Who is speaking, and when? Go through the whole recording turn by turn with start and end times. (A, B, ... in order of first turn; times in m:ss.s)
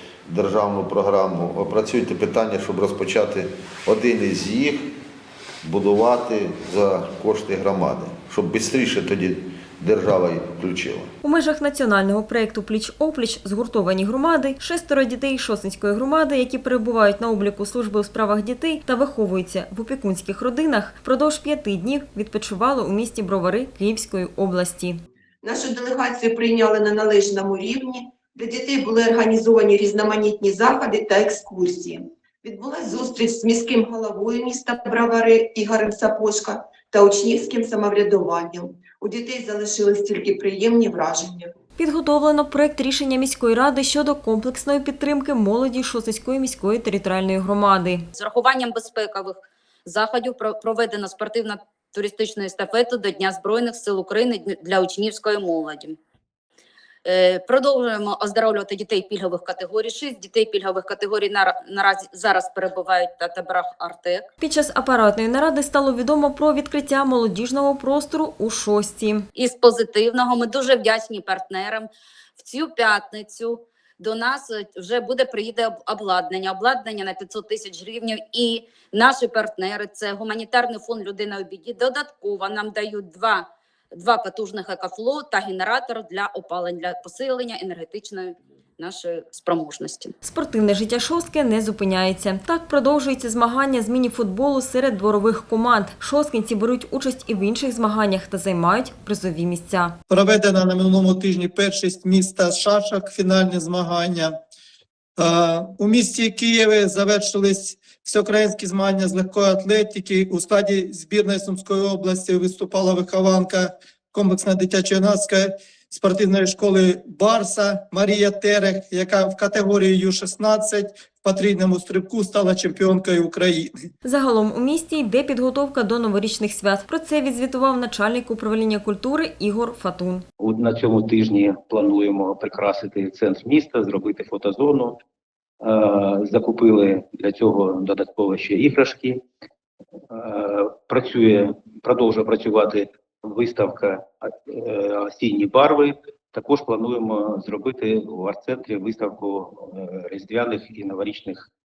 0:00.2-0:04.9 A
0:05.6-0:11.1 A
0:11.2-0:25.0 B
0:25.4-0:41.5 C
0:41.8-0:48.0 B
0:48.1-0:56.0 D
0:57.0-1:04.3 D
1:04.4-1:09.2 B
1:09.3-1:30.1 D
1:30.2-1:40.0 B
1:40.1-1:44.4 E
1:45.2-2:03.7 E
2:04.0-2:10.2 B
2:10.4-2:15.0 F
2:15.6-2:19.2 F
2:20.1-2:31.5 F